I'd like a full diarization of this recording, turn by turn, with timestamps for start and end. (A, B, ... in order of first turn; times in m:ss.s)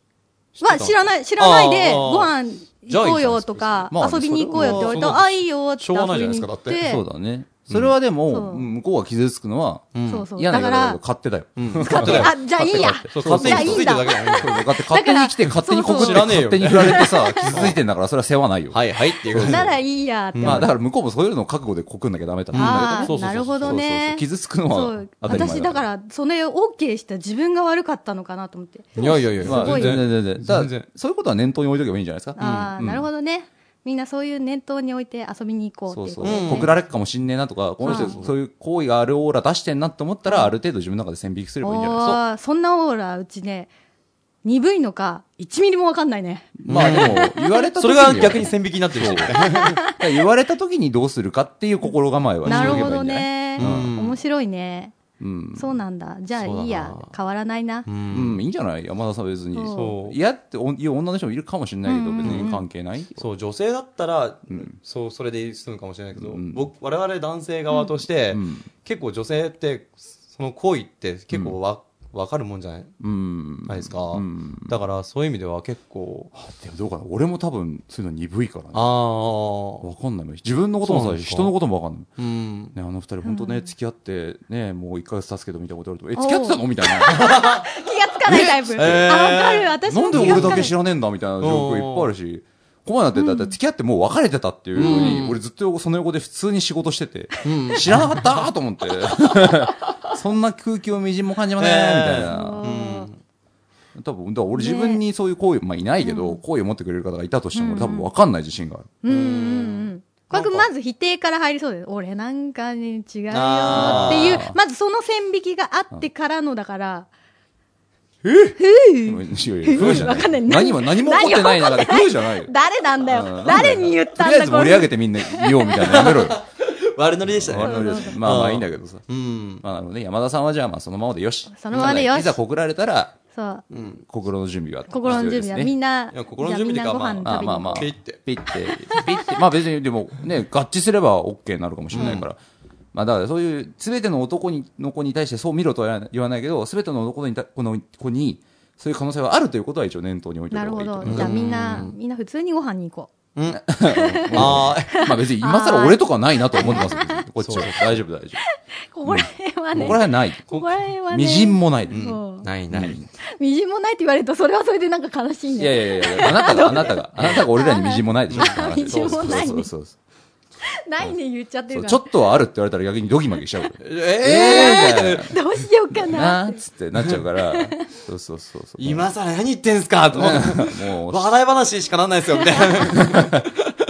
0:00.6-0:02.3 A
0:00.6-0:07.0 B
0:02.9-0:04.0 A
0:03.9-0:05.2 C
0:04.5-0:06.8 A
0:06.8-0:19.8 C
0:07.7-0:07.9 A
0:08.3-0:08.7 B
0:09.9-0:10.3 A
0:10.1-0:11.0 B
0:11.6-0:14.7 A
0:11.8-0:17.7 B
0:15.7-0:17.8 A
0:18.7-0:19.7 A
0:19.4-0:20.7 B
0:20.3-0:20.7 A
0:20.4-0:25.8 C
0:22.5-0:23.8 A
0:22.5-0:30.0 B
0:29.0-0:30.9 A
0:29.4-0:33.1 C
0:32.4-0:36.7 B
0:32.4-0:32.7 A
0:35.9-0:42.2 C
0:36.2-0:36.7 A
0:37.8-0:38.3 A
0:37.8-0:38.1 B
0:41.6-0:43.7 B
0:44.4-0:47.7 B
0:46.6-0:54.0 C
0:46.7-0:49.8 A
0:49.3-0:50.2 B
0:52.4-0:55.0 B
0:52.4-0:53.0 A
0:53.6-0:54.2 A
0:55.2-0:55.8 C
0:55.6-0:57.9 B
0:56.4-0:57.1 A
0:57.9-0:58.4 A
0:58.1-1:03.2 C
0:59.5-1:00.0 B
0:59.8-1:00.2 A
1:01.9-1:02.6 B
1:02.2-1:02.6 A
1:03.2-1:12.9 A
1:04.5-1:04.8 C
1:06.2-1:06.6 C
1:08.3-1:08.7 C
1:11.3-1:11.6 C
1:13.0-1:14.8 C
1:13.7-1:16.3 A
1:16.3-1:18.9 C
1:18.7-1:19.9 A
1:19.8-1:22.1 C
1:20.8-1:21.5 A
1:22.2-1:22.8 A
1:22.7-1:27.3 C
1:23.2-1:23.7 B
1:26.2-1:30.7 B
1:27.1-1:27.8 A
1:28.2-1:42.7 C
1:28.7-1:30.7 A
1:31.4-1:32.1 A
1:33.2-1:33.6 B
1:34.8-1:35.4 A
1:34.8-1:35.2 B
1:37.4-1:38.5 A
1:41.6-1:43.2 A
1:42.3-1:43.1 B
1:44.0-1:48.9 C
1:44.6-1:45.0 B
1:46.0-1:46.4 B
1:47.5-1:48.1 B
1:49.0-1:57.1 B
1:49.1-1:50.7 A
1:53.3-1:54.4 A
1:53.7-1:54.6 C
1:58.2-1:58.6 A
1:58.6-2:06.1 B
1:59.0-2:06.4 C
1:59.8-2:00.1 A
2:05.8-2:09.6 A
2:07.2-2:09.0 C
2:07.6-2:08.2 B
2:09.6-2:13.2 C
2:11.6-2:12.4 B
2:11.7-2:12.1 A
2:13.3-2:13.6 B
2:13.7-2:14.0 A
2:14.1-2:15.7 C
2:14.9-2:17.9 B
2:16.1-2:18.2 A
2:17.2-2:22.4 C
2:18.9-2:19.1 B
2:21.9-2:22.3 A
2:22.9-2:31.8 C
2:30.5-2:33.1 B
2:31.0-2:32.0 A
2:33.4-2:33.7 A
2:33.5-2:38.4 C
2:33.8-2:37.7 B
2:34.3-2:35.0 A
2:36.6-2:38.0 A
2:38.4-2:42.5 B
2:39.1-2:42.1 C
2:41.9-2:43.1 A
2:42.7-2:43.1 C
2:43.4-2:49.7 B
2:45.6-2:50.0 C
2:46.9-2:47.5 A
2:48.3-2:49.5 A
2:50.6-2:52.1 B
2:51.7-2:55.4 C
2:53.8-2:55.5 A
2:54.3-2:56.6 B
2:56.0-2:59.1 C
2:57.4-2:57.9 B
2:58.8-3:03.7 A
3:00.1-3:01.3 C
3:02.9-3:03.4 C